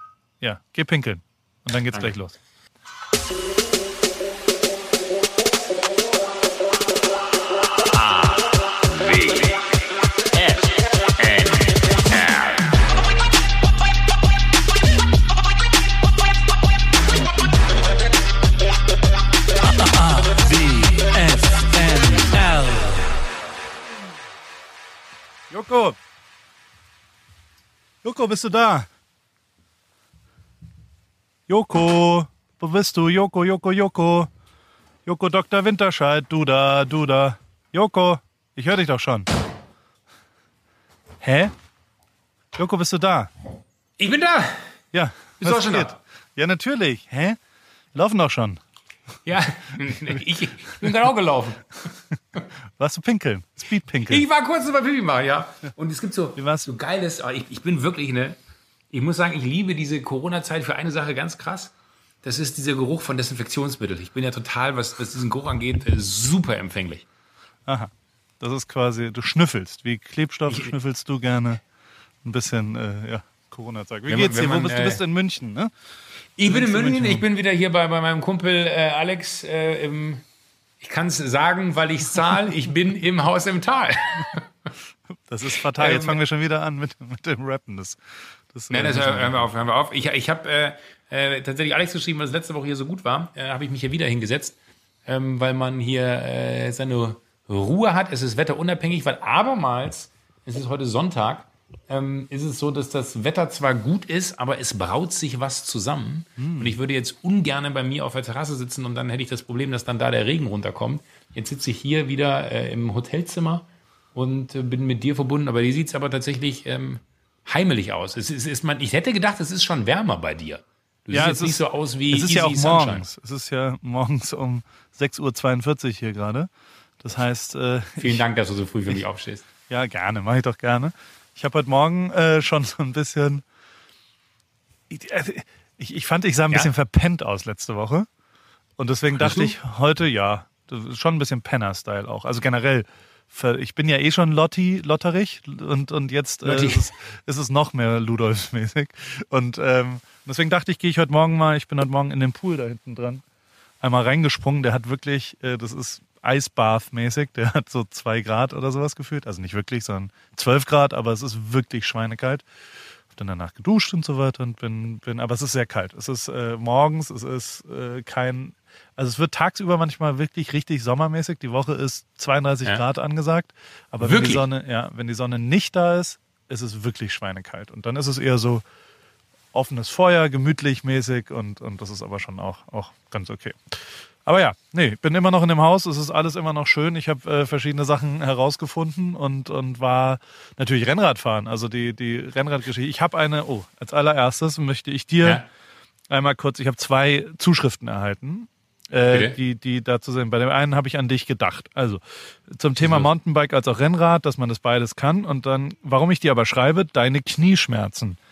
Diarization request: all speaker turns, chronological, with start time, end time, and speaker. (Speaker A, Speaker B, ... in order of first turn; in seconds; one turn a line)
Speaker A: 0.4-2.4
Speaker B: 7.8-9.7
Speaker B: 10.3-12.6
Speaker A: 19.6-23.2
Speaker A: 25.5-25.9
Speaker A: 28.0-28.9
Speaker A: 31.5-34.3
Speaker A: 35.0-39.3
Speaker A: 41.2-41.5
Speaker A: 42.5-43.3
Speaker B: 44.0-44.6
Speaker A: 44.9-47.4
Speaker B: 45.4-46.0
Speaker A: 47.9-48.6
Speaker B: 49.2-51.7
Speaker A: 52.8-54.2
Speaker B: 54.1-58.4
Speaker A: 56.4-56.7
Speaker B: 58.9-67.0
Speaker A: 67.7-71.6
Speaker A: 72.2-75.7
Speaker B: 74.1-75.0
Speaker B: 76.4-80.2
Speaker A: 76.5-77.2
Speaker B: 80.8-84.5
Speaker A: 85.3-88.0
Speaker B: 85.7-86.2
Speaker A: 88.5-89.5
Speaker B: 88.7-123.0
Speaker A: 106.4-106.8
Speaker A: 121.1-126.5
Speaker A: 127.0-128.2
Speaker B: 128.0-129.4
Speaker A: 129.7-133.4
Speaker A: 134.9-138.1
Speaker A: 138.8-153.2
Speaker B: 139.2-139.5
Speaker B: 146.4-146.9
Speaker A: 153.8-162.4
Speaker A: 163.1-178.6
Speaker B: 174.0-174.4
Speaker A: 179.5-183.8
Speaker A: 184.2-195.4
Speaker A: 196.1-208.2
Speaker B: 202.8-203.1